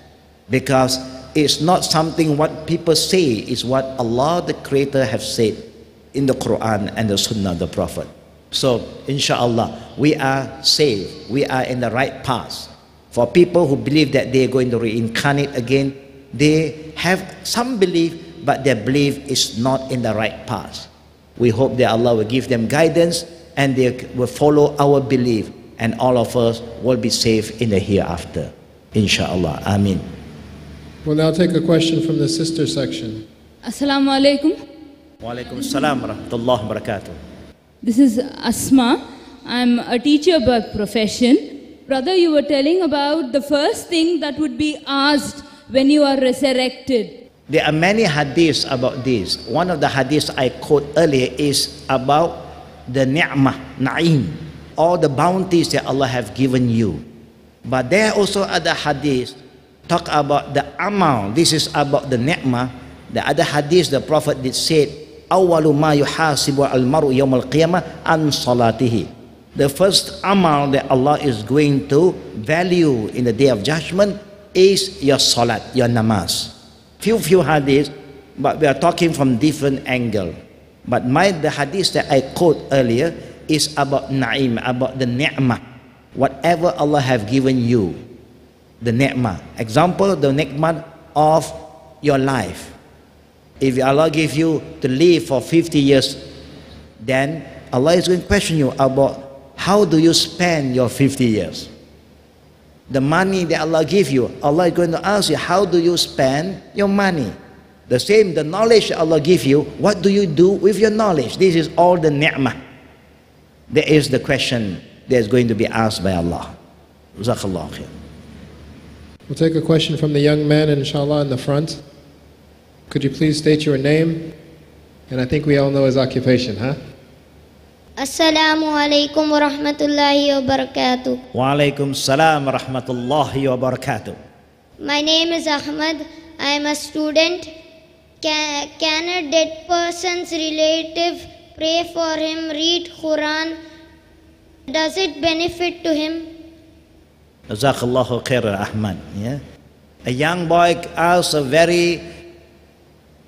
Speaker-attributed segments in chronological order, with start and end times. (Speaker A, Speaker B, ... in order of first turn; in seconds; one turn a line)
Speaker A: 0.5-30.0
Speaker B: 31.0-33.2
Speaker C: 33.6-34.5
Speaker A: 35.2-37.2
Speaker C: 37.8-47.1
Speaker A: 47.5-57.0
Speaker A: 57.6-80.3
Speaker A: 80.9-85.6
Speaker A: 86.2-88.0
Speaker A: 88.8-92.7
Speaker A: 93.6-96.2
Speaker A: 97.0-101.7
Speaker A: 102.9-107.3
Speaker A: 107.9-112.6
Speaker A: 113.7-116.5
Speaker A: 117.2-117.9
Speaker B: 119.3-121.8
Speaker B: 122.9-124.3
Speaker B: 125.1-126.8
Speaker D: 128.0-131.2
Speaker A: 131.3-134.2
Speaker D: 134.8-137.5
Speaker D: 138.2-143.6
Speaker D: 144.7-146.3
Speaker A: 147.5-149.4
Speaker A: 150.1-152.0